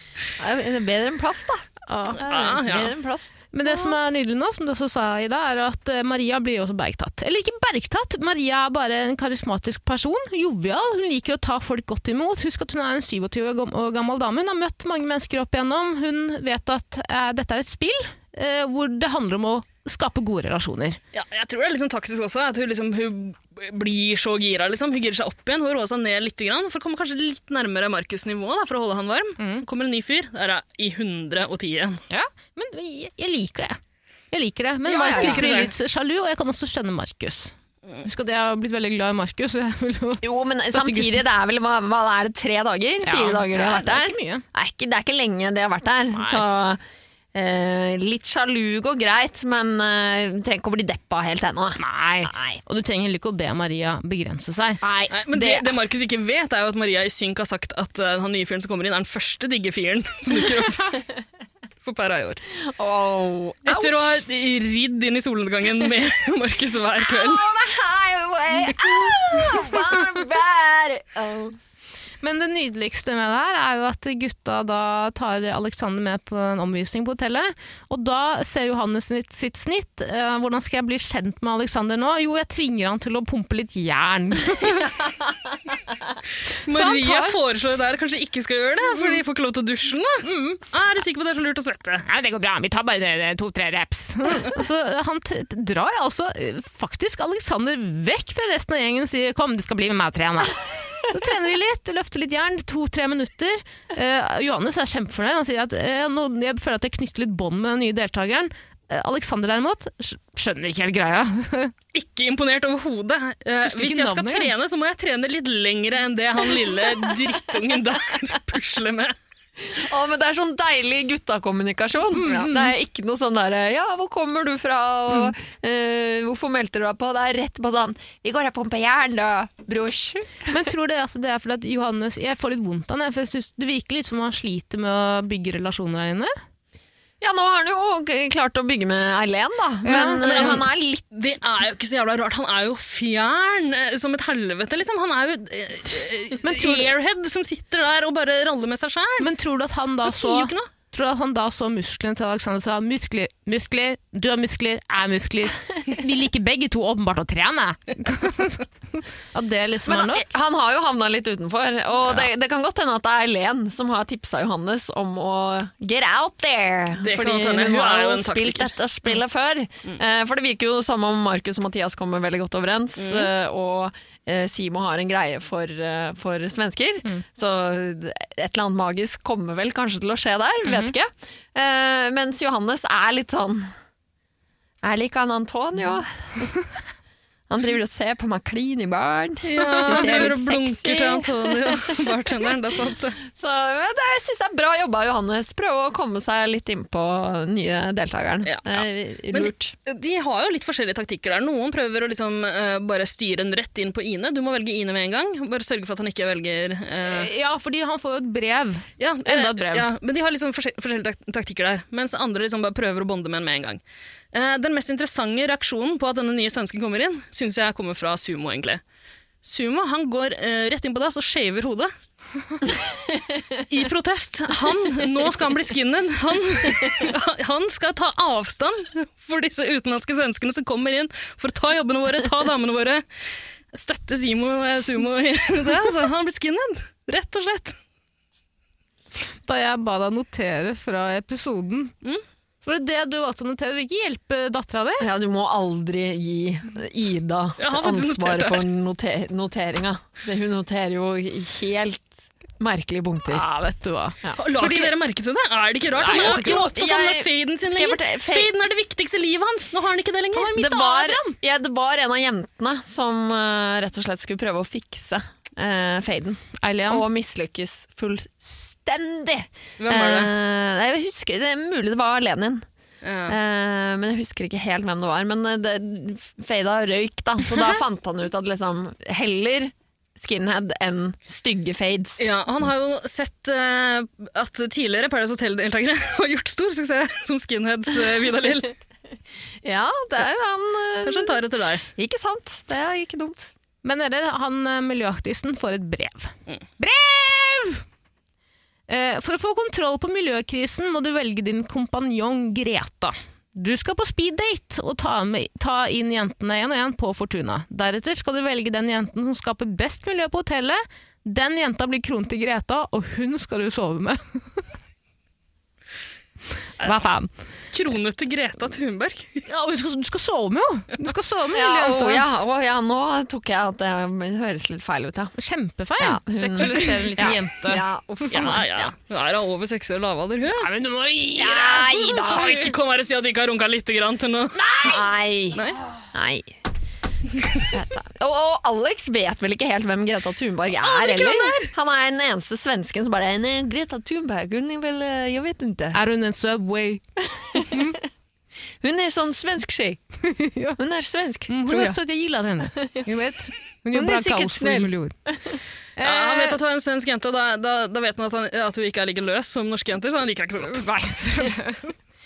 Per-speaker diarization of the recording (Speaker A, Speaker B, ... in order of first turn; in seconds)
Speaker A: 0.4-4.0, 34.9-35.5, 40.2-46.8, 47.3-52.6, 54.8-55.6, 62.6-64.2, 67.0-71.6, 119.6-130.5, 137.2-141.1, 159.9-183.7, 184.8-186.5, 187.5-192.0, 193.3-199.7, 245.0-253.5, 256.0-258.5, 260.6-272.6, 273.3-282.3, 289.6-291.4, 292.0-293.5, 321.5-325.3, 326.0-328.9, 331.4-332.6, 334.8-335.6, 336.1-336.5, 337.7-346.0, 347.6-347.9, 348.8-350.0, 350.8-352.0, 353.9-354.9
Speaker B: 1.9-2.2, 3.5-21.0, 29.4-29.6, 32.1-33.8, 34.3-41.2, 43.0-44.4, 46.1-46.5, 51.8-54.8, 72.2-84.9, 86.7-87.4, 90.2-90.6, 92.1-111.7, 113.7-114.5, 122.1-122.7, 130.5-136.3, 139.8-140.6, 146.4-146.9, 149.2-160.3, 180.7-180.9, 189.6-190.4, 207.0-209.9, 239.5-241.9, 242.6-245.1, 253.2-254.9, 256.0-256.6, 260.3-261.4, 266.6-267.1, 293.8-297.8, 298.9-314.6, 316.8-317.3, 319.5-322.2, 325.4-327.8, 330.6-332.7, 345.9-347.0, 347.5-348.0, 350.2-350.8, 351.5-355.2, 356.0-356.6, 360.6-361.9
Speaker C: 2.2-2.9, 21.1-32.0, 35.1-35.7, 55.1-61.0, 61.9-62.4, 63.6-67.5, 86.6-92.0, 111.9-119.1, 140.2-149.3, 150.1-150.7, 167.0-168.7, 173.0-173.3, 189.5-193.2, 198.5-207.3, 209.0-213.8, 214.3-218.8, 219.4-221.9, 223.7-233.0, 233.7-237.8, 247.6-248.7, 254.4-260.6, 269.8-270.3, 273.0-273.4, 282.2-288.7, 291.1-291.9, 317.7-319.5, 328.3-330.7, 332.2-334.6, 340.8-341.7, 356.0-360.9